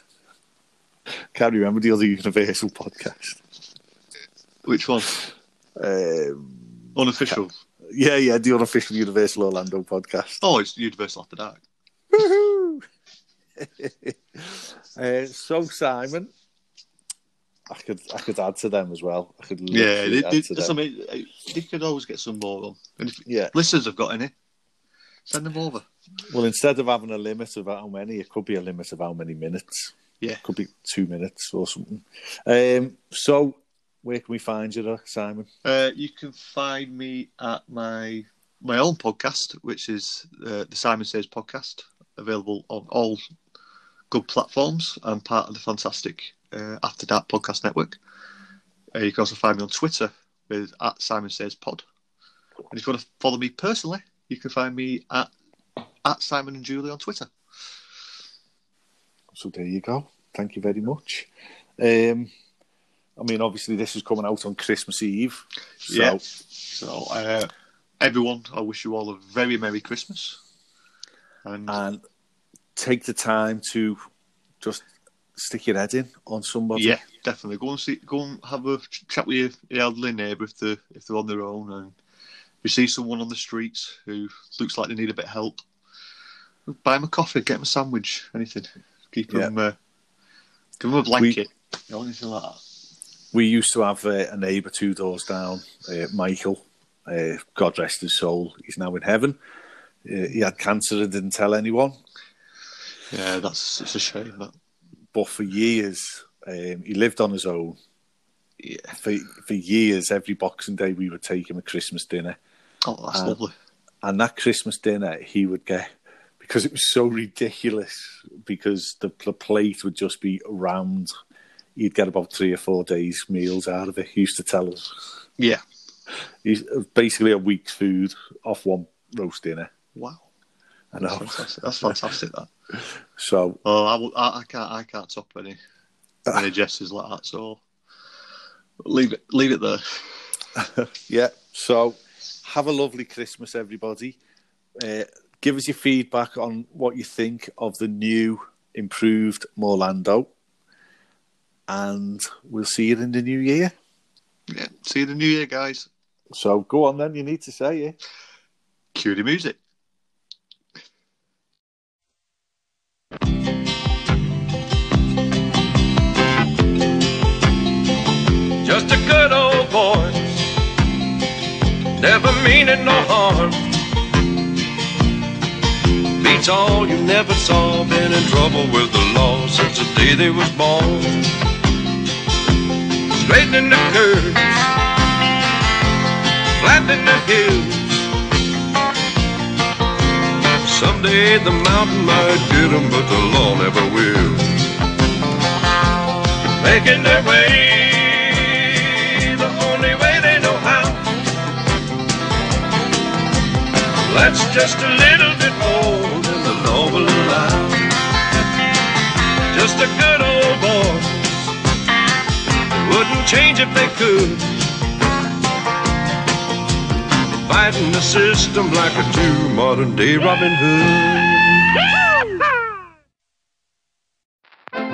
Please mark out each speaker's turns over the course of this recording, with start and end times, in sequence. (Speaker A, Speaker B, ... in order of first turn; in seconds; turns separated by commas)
Speaker A: 1.3-3.4, Speaker B: 4.7-5.2, Speaker A: 5.8-7.3, Speaker B: 7.0-7.5, Speaker A: 7.9-10.4, Speaker B: 10.4-11.6, Speaker A: 12.1-12.8, Speaker A: 13.6-16.3, Speaker A: 17.7-20.8, Speaker B: 19.7-24.3, Speaker A: 23.3-23.5, Speaker B: 25.3-25.9, Speaker A: 26.3-35.5, Speaker B: 35.6-43.2, Speaker B: 44.1-48.0, Speaker B: 49.0-51.8, Speaker B: 52.7-55.3, Speaker B: 56.0-57.3, Speaker A: 59.3-62.3, Speaker A: 63.2-66.2, Speaker B: 65.8-70.4, Speaker B: 71.4-71.8, Speaker A: 71.7-72.0, Speaker A: 72.8-74.0, Speaker A: 74.6-77.0, Speaker B: 76.8-82.0, Speaker B: 82.6-85.6, Speaker B: 86.7-89.8, Speaker B: 90.8-92.6, Speaker A: 93.3-99.4, Speaker A: 100.0-102.0, Speaker B: 103.1-104.5, Speaker A: 105.1-107.8, Speaker B: 108.6-108.9, Speaker A: 108.9-112.4, Speaker B: 112.8-113.5, Speaker A: 113.1-113.4, Speaker A: 114.0-121.1, Speaker A: 121.8-125.0, Speaker A: 126.4-129.7, Speaker B: 129.9-130.3, Speaker A: 130.9-131.5, Speaker B: 131.0-132.5, Speaker A: 133.2-133.6, Speaker B: 133.6-135.6, Speaker B: 136.3-137.6, Speaker B: 138.8-140.0, Speaker A: 140.6-144.2, Speaker A: 144.8-150.3, Speaker A: 151.7-153.7, Speaker B: 154.5-155.9, Speaker A: 156.3-158.0, Speaker B: 158.9-159.6, Speaker C: 168.6-170.4, Speaker C: 171.9-173.8, Speaker C: 176.2-181.4, Speaker C: 183.1-184.7, Speaker C: 186.6-188.1, Speaker C: 190.6-194.6, Speaker C: 196.6-201.2, Speaker C: 204.1-207.9, Speaker C: 209.5-211.5, Speaker C: 212.7-214.7, Speaker C: 217.4-222.2